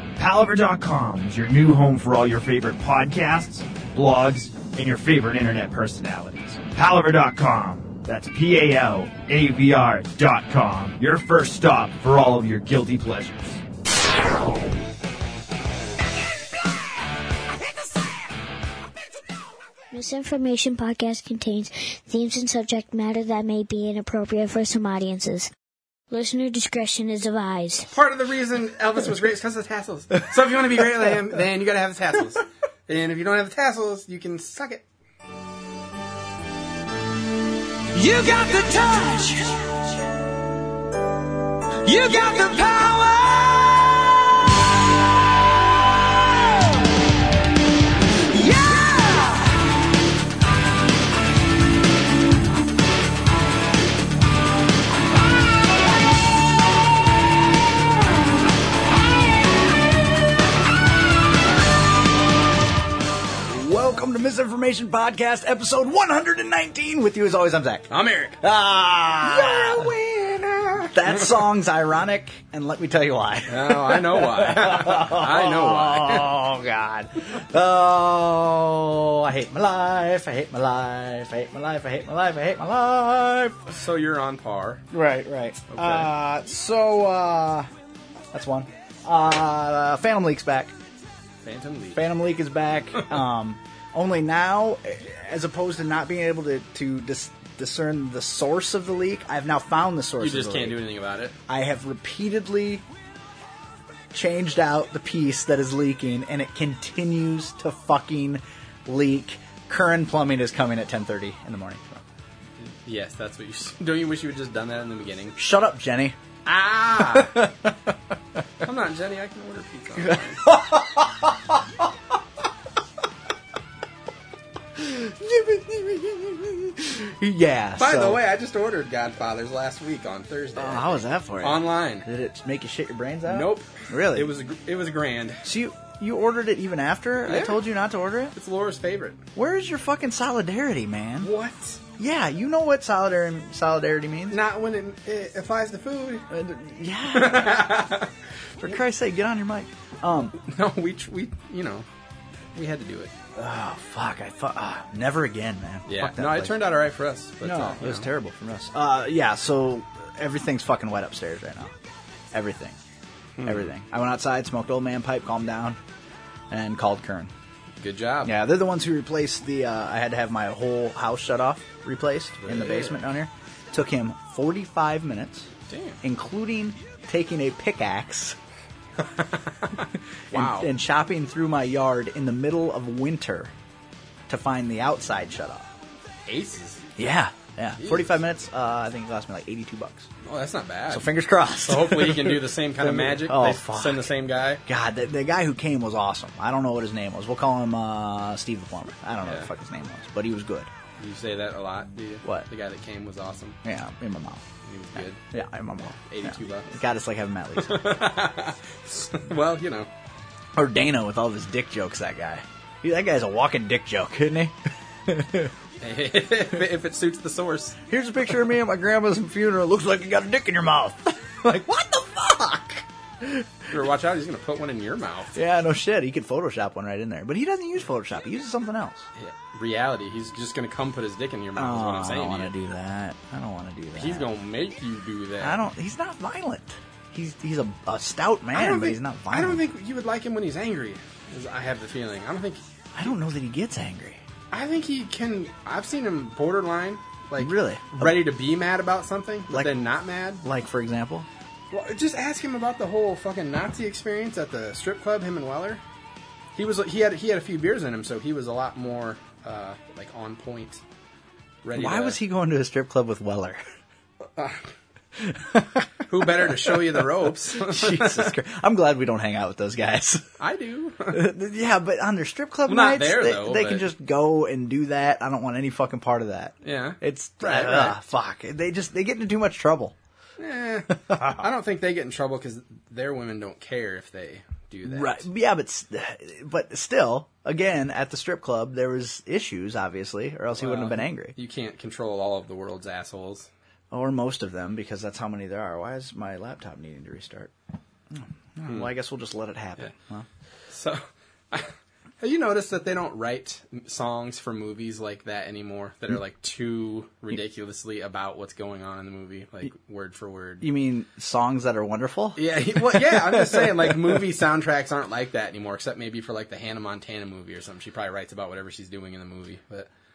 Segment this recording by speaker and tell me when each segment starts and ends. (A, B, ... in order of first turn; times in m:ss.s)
0:00.2-0:13.6 A
0:19.9-0:25.5 B
0:26.1-0:27.9 B
0:27.9-0:34.8 C
0:37.9-0:39.6 D
0:41.9-0:43.5 D
0:48.4-0:49.1 D
1:03.4-1:23.7 E
1:07.9-1:08.4 C
1:13.5-1:16.4 C
1:23.7-1:24.8 C
1:24.9-1:27.7 E
1:25.7-1:26.1 C
1:28.3-1:30.7 E
1:31.4-1:32.0 C
1:31.9-1:40.8 E
1:40.2-1:41.4 C
1:41.5-1:42.8 E
1:44.1-1:52.0 E
1:52.6-1:55.4 C
1:55.4-1:56.2 E
1:56.4-1:57.4 C
1:57.0-1:57.9 E
1:58.6-2:00.5 C
2:00.0-2:01.8 E
2:04.8-2:08.2 E
2:07.8-2:12.1 C
2:10.6-2:14.3 E
2:13.2-2:15.4 C
2:15.4-2:18.3 E
2:17.2-2:17.6 C
2:18.3-2:19.2 C
2:19.3-2:21.3 E
2:21.2-2:21.8 C
2:22.0-2:24.4 E
2:24.3-2:26.3 C
2:26.3-2:27.9 E
2:27.1-2:28.1 C
2:28.6-2:30.4 E
2:30.4-2:31.8 C
2:32.5-2:33.1 C
2:33.3-2:36.6 E
2:35.8-2:38.1 C
2:37.4-2:41.7 E
2:42.3-2:42.8 E
2:43.4-2:43.7 C
2:43.4-2:45.8 E
2:46.5-2:47.3 E
2:47.8-2:48.3 C
2:48.2-2:55.5 E
2:52.4-2:53.0 C
2:55.7-2:56.0 C
2:56.0-2:58.4 E
2:59.0-3:00.7 C
3:00.3-3:03.5 E
3:04.3-3:05.7 E
3:06.2-3:06.8 C
3:07.0-3:10.1 E
3:07.8-3:08.1 C
3:10.2-3:11.1 C
3:10.9-3:14.1 E
3:11.6-3:14.6 C
3:14.6-3:20.7 E
3:19.2-3:19.5 C
3:21.0-3:23.6 C
3:23.6-3:24.4 E
3:24.6-3:25.2 C
3:25.2-3:27.9 E
3:26.0-3:26.8 C
3:27.6-3:29.9 C
3:30.5-3:34.6 E
3:35.1-3:35.5 E
3:35.8-3:37.8 C
3:37.9-3:43.5 E
3:43.7-3:45.3 C
3:45.3-3:49.0 E
3:49.2-3:52.5 C
3:51.6-3:54.3 E
3:54.0-3:55.6 C
3:55.4-3:59.6 E
3:58.5-4:02.6 C
4:02.9-4:04.2 E
4:04.5-4:10.4 C
4:07.4-4:08.2 E
4:09.5-4:09.7 E
4:10.4-4:11.3 E
4:11.7-4:15.8 C
4:16.5-4:20.8 C
4:21.6-4:22.2 C
4:21.7-4:23.6 E
4:24.4-4:24.7 C
4:25.2-4:30.4 E
4:26.1-4:28.3 C
4:30.4-4:31.3 C
4:31.1-4:39.9 E
4:32.7-4:33.9 C
4:36.6-4:38.0 C
4:40.4-4:45.2 C
4:41.1-4:41.4 E
4:44.8-4:51.3 E
4:50.5-4:53.5 C
4:53.9-4:57.5 E
4:58.1-5:00.2 E
5:00.7-5:10.7 C
5:10.6-5:14.2 E
5:12.4-5:19.9 C